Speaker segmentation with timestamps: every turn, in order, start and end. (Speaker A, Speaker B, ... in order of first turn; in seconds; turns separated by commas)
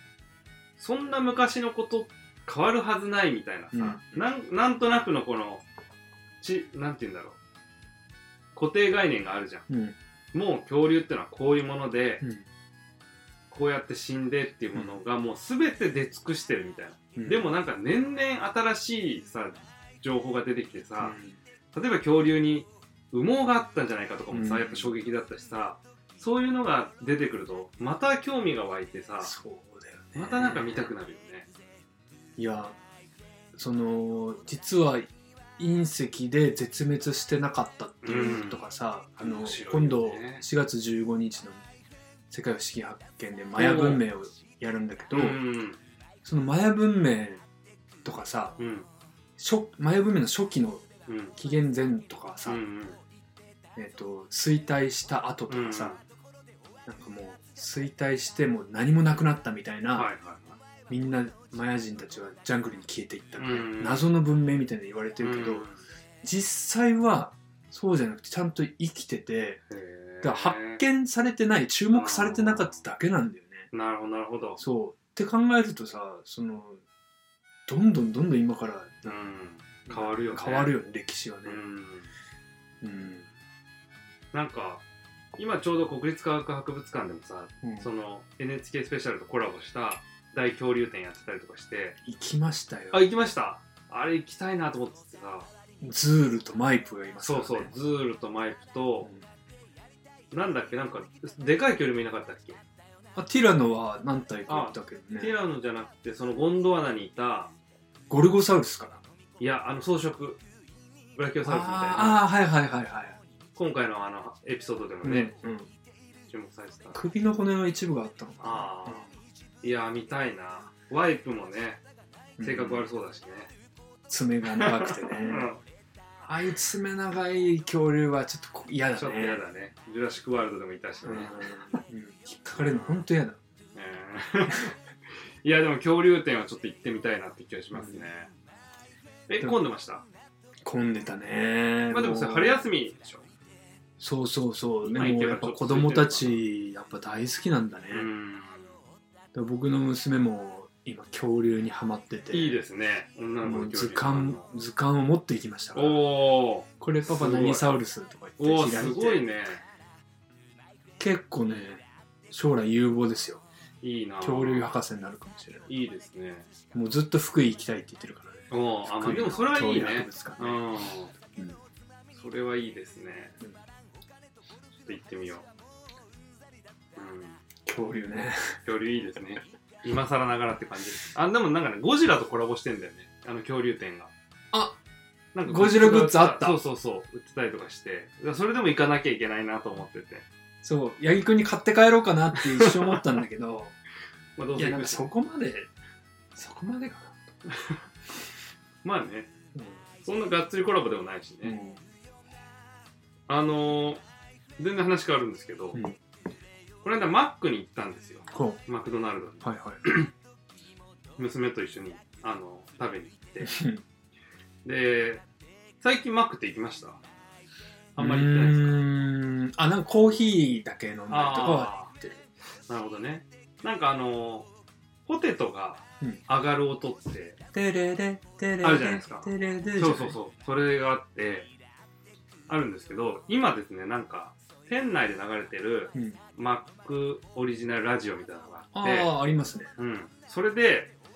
Speaker A: 0.8-5.7, Speaker B: 3.7-4.2, Speaker A: 6.4-7.4, Speaker A: 8.6-9.7, Speaker B: 9.7-10.0, Speaker A: 10.3-12.2, Speaker A: 13.5-21.2, Speaker B: 17.2-17.4, Speaker B: 21.0-21.4, Speaker A: 21.7-29.4, Speaker B: 24.3-24.9, Speaker B: 29.2-30.9, Speaker A: 30.1-31.5, Speaker B: 32.4-32.8, Speaker B: 33.5-41.6, Speaker A: 38.0-38.6, Speaker A: 39.2-40.4, Speaker B: 42.3-45.4, Speaker A: 43.6-44.0, Speaker A: 45.1-45.8, Speaker B: 46.2-47.4, Speaker B: 48.0-48.6, Speaker A: 48.6-48.9, Speaker B: 49.4-50.9, Speaker A: 51.1-51.4, Speaker B: 51.4-52.6, Speaker A: 52.5-53.0, Speaker B: 53.8-55.9, Speaker A: 55.5-56.0, Speaker B: 56.9-60.1, Speaker A: 60.0-60.6, Speaker B: 60.9-65.7, Speaker A: 63.4-64.1, Speaker A: 65.2-65.8, Speaker B: 66.2-69.6, Speaker A: 69.7-70.8, Speaker B: 70.2-73.7, Speaker A: 71.9-72.8, Speaker A: 73.7-74.6, Speaker B: 74.6-76.8, Speaker B: 77.7-79.2, Speaker A: 79.1-80.8, Speaker B: 79.9-81.6, Speaker A: 81.5-82.1, Speaker B: 82.8-83.3, Speaker A: 84.3-84.8, Speaker A: 85.4-92.0, Speaker B: 87.6-87.9, Speaker B: 92.0-93.1, Speaker A: 92.9-95.5, Speaker B: 95.8-97.7, Speaker A: 97.2-99.1, Speaker A: 100.3-102.6, Speaker B: 103.2-105.3, Speaker A: 104.5-107.5, Speaker B: 108.1-109.0, Speaker A: 109.4-110.4, Speaker A: 111.2-112.2, Speaker B: 111.4-113.2, Speaker A: 113.6-115.3, Speaker B: 115.0-115.7, Speaker A: 116.3-117.0, Speaker B: 116.9-119.1, Speaker A: 118.4-119.1, Speaker A: 119.6-121.8, Speaker B: 122.4-122.8, Speaker A: 122.4-123.5, Speaker B: 124.1-125.5, Speaker A: 124.6-125.6, Speaker B: 126.2-129.4, Speaker A: 129.0-131.8, Speaker B: 131.0-133.4, Speaker A: 132.6-133.0, Speaker A: 133.8-134.8, Speaker A: 135.4-138.3, Speaker B: 137.7-138.1, Speaker A: 139.3-140.1, Speaker B: 140.6-142.7, Speaker A: 141.9-143.3, Speaker B: 144.0-148.1, Speaker A: 144.8-146.4, Speaker A: 147.9-148.8, Speaker B: 149.3-152.6, Speaker A: 152.3-154.5, Speaker B: 153.4-156.0, Speaker A: 155.8-157.8, Speaker B: 156.8-159.2, Speaker A: 158.4-159.6, Speaker B: 161.0-163.4, Speaker A: 163.8-164.7, Speaker B: 164.2-165.7, Speaker A: 165.7-166.5, Speaker B: 166.7-170.6, Speaker A: 168.5-171.1, Speaker B: 171.3-171.6, Speaker A: 172.1-173.4, Speaker A: 174.8-175.5, Speaker A: 177.0-177.4, Speaker B: 177.7-178.5, Speaker A: 178.7-184.1, Speaker B: 184.5-184.8, Speaker A: 185.3-190.2, Speaker B: 185.5-186.6, Speaker B: 190.6-193.7, Speaker A: 192.4-193.0, Speaker A: 194.4-195.1, Speaker B: 194.6-195.7, Speaker B: 196.3-197.3, Speaker A: 197.5-197.8, Speaker A: 198.8-199.3, Speaker A: 200.0-201.6, Speaker B: 201.4-201.8, Speaker A: 203.3-204.0, Speaker A: 204.6-205.8, Speaker A: 206.8-210.1, Speaker B: 208.3-208.6, Speaker B: 209.4-209.8, Speaker A: 211.2-213.6, Speaker B: 213.4-213.8, Speaker A: 214.7-215.2, Speaker A: 215.8-217.0, Speaker A: 218.0-218.8, Speaker B: 218.0-222.2, Speaker A: 221.1-221.9, Speaker A: 222.7-224.5, Speaker A: 225.1-227.4, Speaker B: 227.5-230.2, Speaker A: 228.6-231.5, Speaker A: 232.5-239.1, Speaker B: 235.9-236.2, Speaker B: 238.7-239.7, Speaker A: 239.8-240.9